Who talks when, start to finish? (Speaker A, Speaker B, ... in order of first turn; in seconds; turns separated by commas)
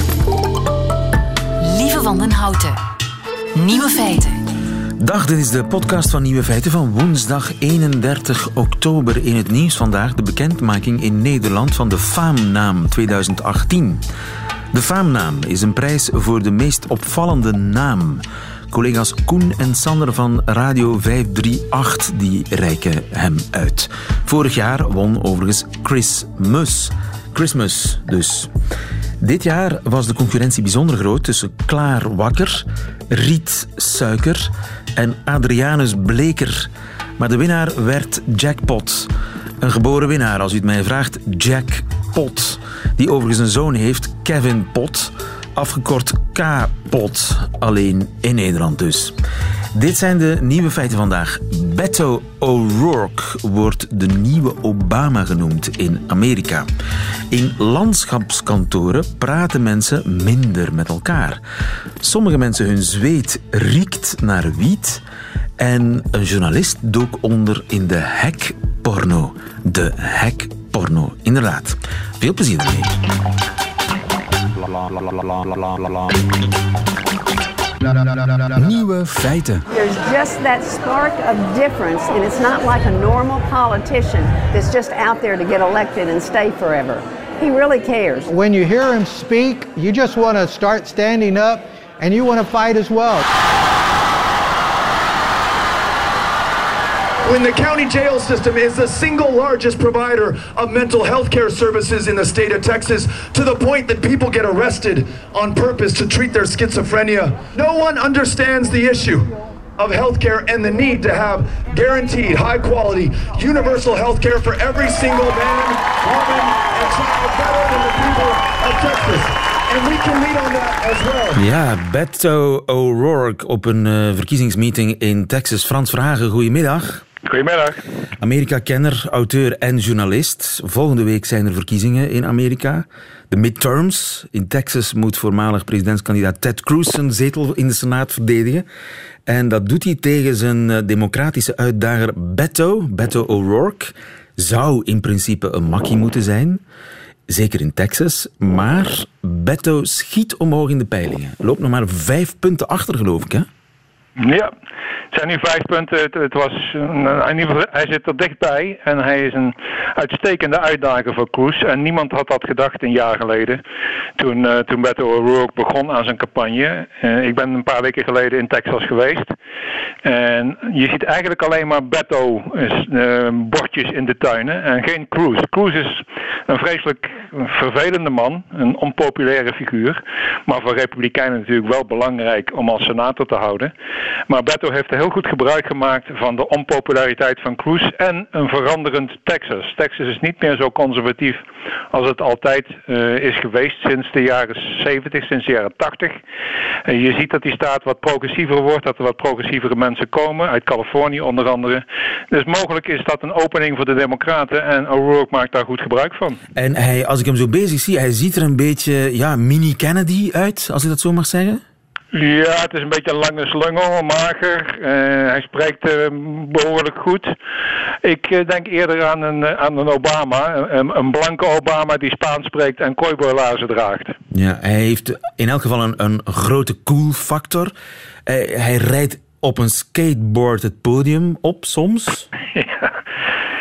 Speaker A: 1.7-2.8, Speaker A: 3.6-4.3, Speaker B: 5.0-14.0, Speaker B: 14.7-28.5, Speaker B: 29.2-49.2, Speaker B: 49.7-56.7, Speaker B: 57.3-61.4, Speaker B: 62.0-65.0, Speaker B: 65.6-73.0, Speaker B: 78.8-79.6, Speaker A: 79.7-88.3, Speaker C: 88.3-93.2, Speaker D: 97.2-121.4, Speaker B: 121.3-127.0, Speaker E: 127.3-127.8, Speaker B: 128.2-138.7, Speaker B: 139.3-146.6, Speaker B: 147.3-153.5, Speaker E: 154.2-154.5, Speaker E: 155.1-163.6, Speaker E: 164.2-169.3, Speaker E: 170.0-183.7, Speaker E: 184.3-196.2, Speaker E: 196.9-206.4, Speaker B: 206.6-211.6, Speaker E: 212.1-217.3, Speaker E: 218.0-224.2, Speaker B: 224.3-227.7, Speaker B: 228.3-232.3, Speaker E: 232.6-232.9